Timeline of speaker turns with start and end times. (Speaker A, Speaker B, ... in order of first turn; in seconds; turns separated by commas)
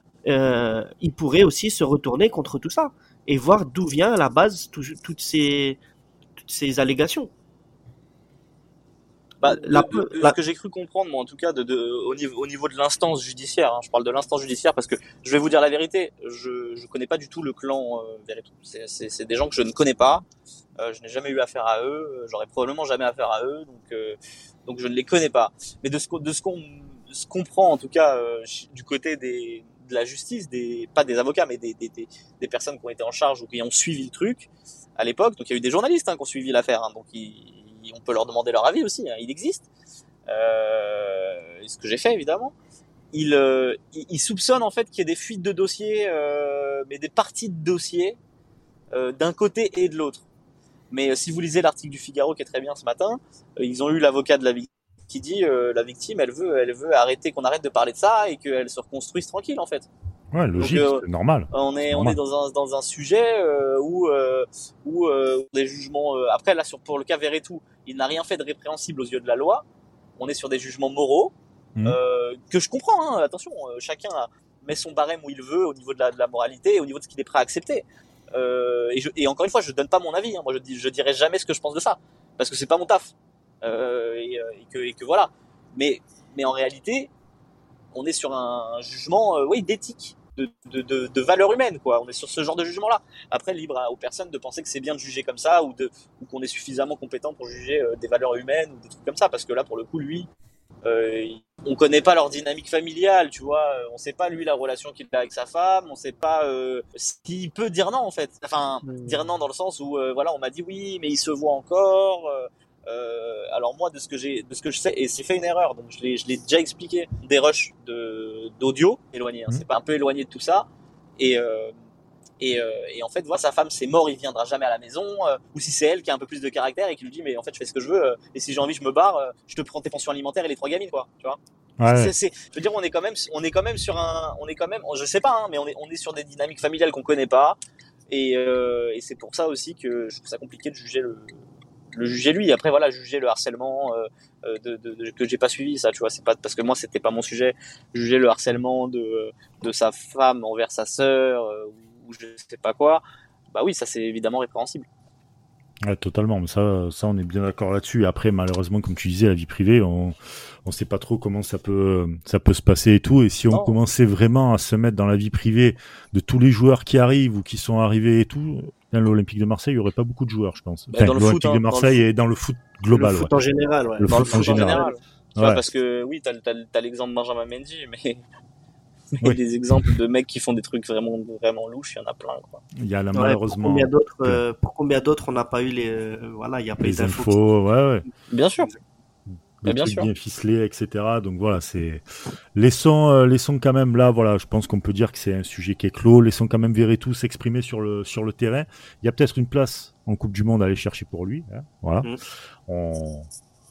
Speaker A: 0.2-5.8, Speaker A: 6.4-7.3, Speaker B: 9.4-20.2, Speaker A: 9.4-10.3, Speaker B: 20.8-39.7, Speaker B: 40.3-42.5, Speaker B: 43.1-48.2, Speaker B: 48.9-50.2, Speaker B: 50.9-59.9, Speaker C: 60.3-62.2, Speaker B: 60.6-69.6, Speaker B: 70.2-87.1, Speaker B: 87.9-100.3, Speaker B: 100.8-120.7, Speaker A: 108.8-109.2, Speaker B: 121.2-121.7, Speaker B: 122.4-137.6, Speaker C: 131.8-132.1, Speaker B: 138.1-141.4, Speaker B: 141.9-154.9, Speaker C: 155.8-173.3, Speaker B: 170.9-172.0, Speaker A: 172.9-174.9, Speaker C: 174.0-174.8, Speaker B: 174.0-178.2, Speaker C: 175.4-175.6, Speaker B: 179.1-182.6, Speaker C: 179.2-179.9, Speaker C: 182.8-184.4, Speaker A: 183.1-187.4, Speaker C: 186.8-188.0, Speaker B: 188.3-188.7, Speaker C: 189.3-192.0, Speaker B: 189.6-190.1, Speaker C: 192.5-202.1, Speaker C: 202.7-203.3